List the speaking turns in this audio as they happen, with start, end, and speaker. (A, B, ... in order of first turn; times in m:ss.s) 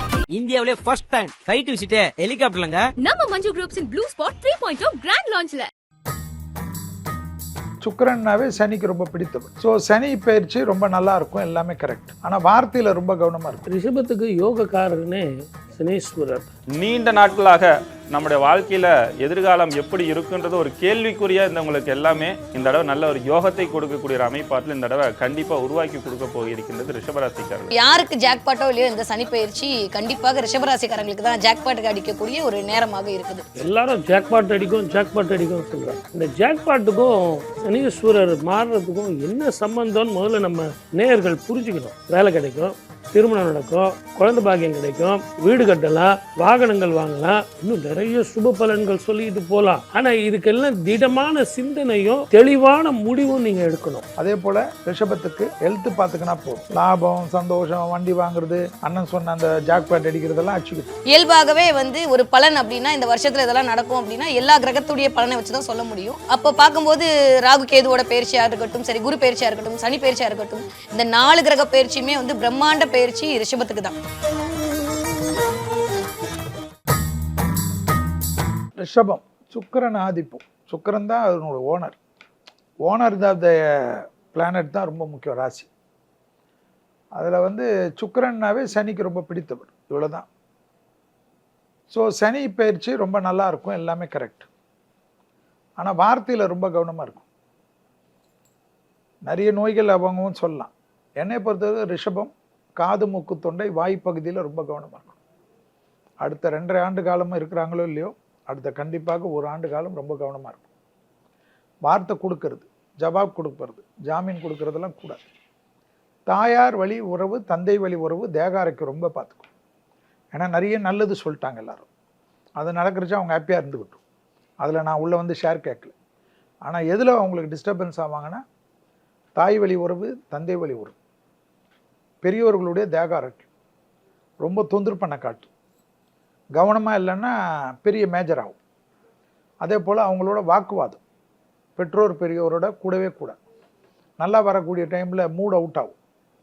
0:00.3-0:02.9 A
0:03.0-0:05.7 B
0:07.8-0:13.6 C
0:13.7-0:16.5 D
0:16.8-0:27.7 E
0:27.7-0:33.4 F
0:33.6-0:54.0 D
0:54.2-1:00.9 C
1:01.1-1:14.0 F
1:18.8-1:22.0 C
1:22.8-1:25.7 C
1:27.1-1:30.3 C
1:31.9-1:34.5 C
1:35.8-1:37.3 C
1:39.3-1:45.2 C
1:46.2-1:50.7 C
1:51.8-1:55.3 C
1:56.3-1:59.5 C
2:00.3-2:01.9 C
2:02.6-2:04.0 C
2:04.6-2:05.9 C
2:06.6-2:08.4 C
2:09.4-2:11.0 C
2:12.2-2:13.5 C
2:14.4-2:15.5 C
2:16.6-2:18.6 C
2:19.6-2:21.0 C
2:21.8-2:23.4 C
2:24.2-2:26.0 C